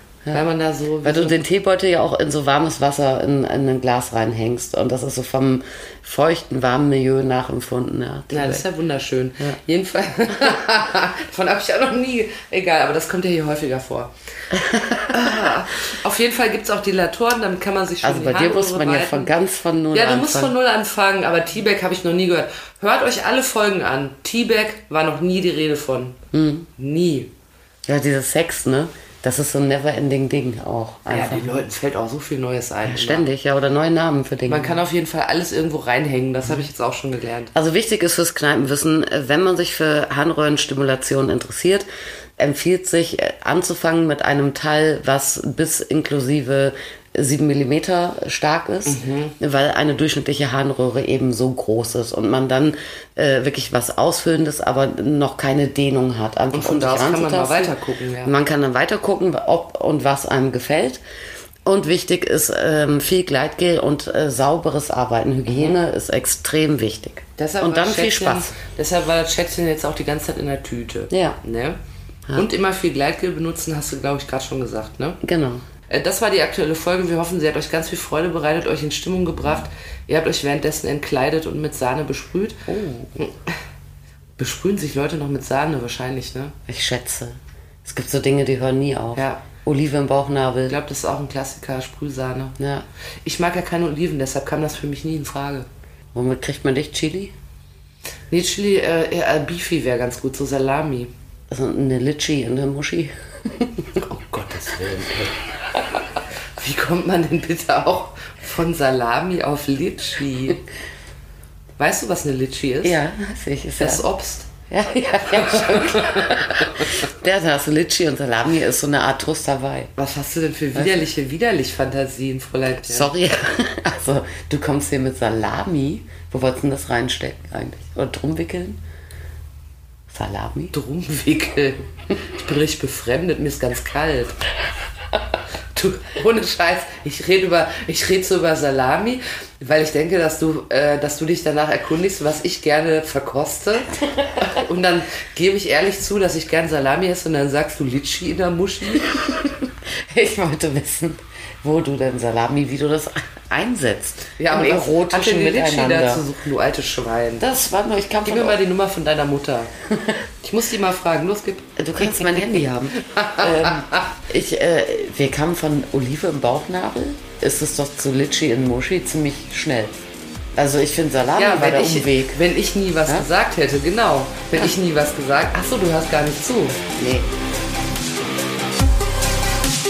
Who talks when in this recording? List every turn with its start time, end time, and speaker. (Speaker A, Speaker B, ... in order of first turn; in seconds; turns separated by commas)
Speaker A: 0.3-1.4, Speaker B: 1.0-8.7, Speaker A: 8.3-14.1, Speaker B: 14.6-15.3, Speaker A: 15.1-19.3, Speaker B: 18.0-20.5, Speaker A: 19.9-26.2, Speaker B: 26.3-26.7, Speaker A: 26.8-27.3, Speaker B: 27.9-31.5, Speaker A: 31.1-33.3, Speaker B: 32.9-34.8, Speaker A: 34.5-37.5, Speaker B: 37.5-41.8, Speaker B: 42.4-61.0, Speaker A: 48.9-49.4, Speaker A: 56.5-58.3, Speaker B: 61.6-68.5, Speaker A: 65.5-65.8, Speaker A: 67.4-71.8, Speaker B: 71.1-71.4, Speaker A: 72.3-75.2, Speaker B: 75.2-75.6, Speaker A: 75.9-82.7, Speaker B: 82.7-83.2, Speaker A: 83.2-83.5, Speaker A: 84.4-86.5, Speaker B: 86.7-90.7, Speaker A: 89.1-89.4, Speaker A: 90.7-92.6, Speaker B: 92.6-92.8, Speaker A: 93.2-95.7, Speaker B: 96.1-97.3, Speaker A: 98.3-101.1, Speaker B: 101.5-104.0, Speaker A: 104.0-105.3, Speaker A: 106.6-110.6, Speaker A: 111.8-113.0, Speaker B: 112.8-114.0, Speaker A: 113.8-114.5, Speaker B: 114.7-119.9, Speaker A: 115.3-117.0, Speaker A: 120.0-123.1, Speaker B: 122.8-128.8, Speaker B: 130.1-130.7, Speaker A: 130.7-134.4, Speaker A: 135.7-149.2, Speaker B: 149.1-156.2, Speaker A: 154.4-157.4, Speaker B: 157.4-158.6, Speaker A: 158.2-159.7, Speaker A: 160.4-164.1, Speaker B: 161.8-170.0, Speaker B: 170.5-172.4, Speaker A: 171.4-176.8, Speaker B: 177.0-177.3